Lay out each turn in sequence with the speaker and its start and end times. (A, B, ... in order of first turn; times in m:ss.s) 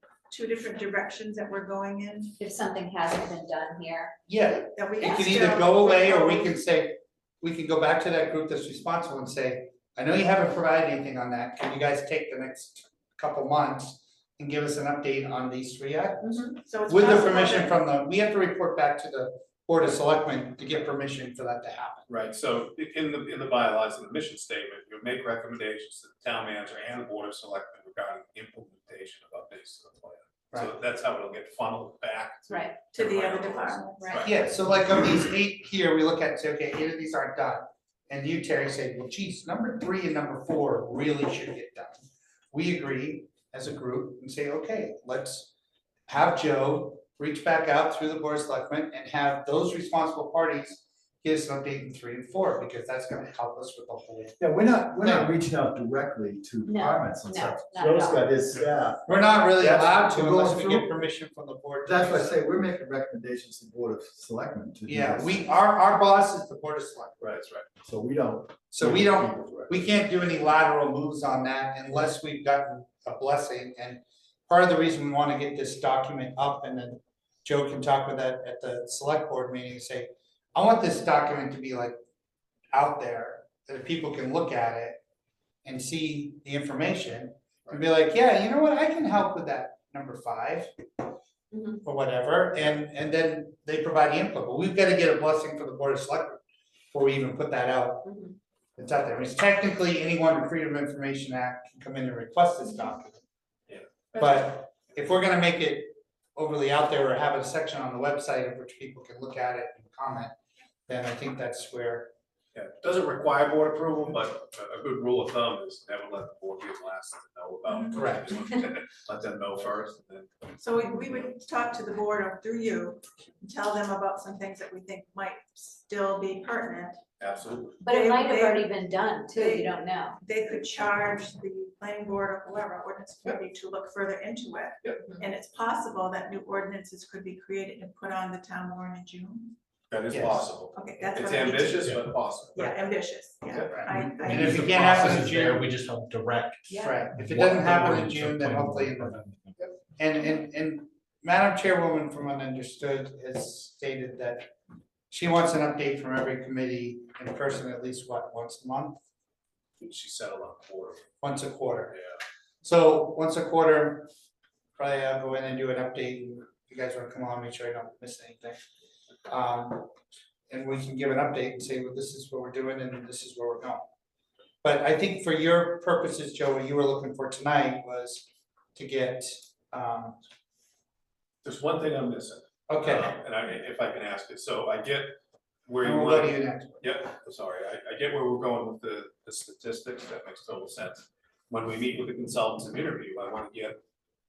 0:00.3-0:02.4 A
0:02.4-0:04.2 B
0:04.3-0:22.0 C
0:04.7-0:06.5 A
0:16.6-0:17.8 A
0:22.1-0:34.3 D
0:32.5-0:32.8 B
0:32.9-0:34.3 A
0:34.0-0:34.3 B
0:34.2-0:42.0 C
0:42.5-0:45.5 C
0:46.1-0:54.4 C
0:54.4-1:00.9 E
0:55.0-0:55.3 C
0:56.6-0:58.4 B
0:59.0-1:02.4 C
1:01.8-1:05.4 E
1:04.9-1:07.2 C
1:07.2-1:07.6 D
1:07.8-1:09.8 E
1:08.7-1:21.9 C
1:22.7-1:25.0 C
1:25.6-1:30.7 C
1:31.5-1:31.8 B
1:31.8-1:36.4 C
1:36.9-1:38.1 C
1:38.0-1:38.4 B
1:38.8-1:43.2 C
1:43.7-1:44.4 D
1:44.1-1:50.3 C
1:50.9-1:52.1 C
1:52.5-2:00.3 D
1:57.7-1:58.0 A
1:57.9-1:58.3 C
2:00.6-2:07.0 A
2:07.2-2:07.8 D
2:07.8-2:10.2 B
2:07.8-2:08.7 A
2:09.3-2:19.5 A
2:15.0-2:15.3 B
2:19.9-2:22.6 D
2:20.1-2:20.5 C
2:20.7-2:25.2 A
2:23.5-2:23.7 D
2:23.7-2:25.7 C
2:23.9-2:29.4 F
2:26.7-2:27.0 A
2:26.7-2:29.2 C
2:30.0-2:34.5 C
2:35.1-2:39.0 C
2:39.8-2:41.0 D
2:41.2-2:41.9 C
2:42.6-2:44.1 C
2:44.8-2:48.6 C
2:49.3-2:49.9 C
2:50.5-2:53.8 C
2:54.6-3:00.2 C
3:01.4-3:05.2 D
3:02.7-3:03.1 C
3:05.7-3:13.8 D
3:05.8-3:06.9 C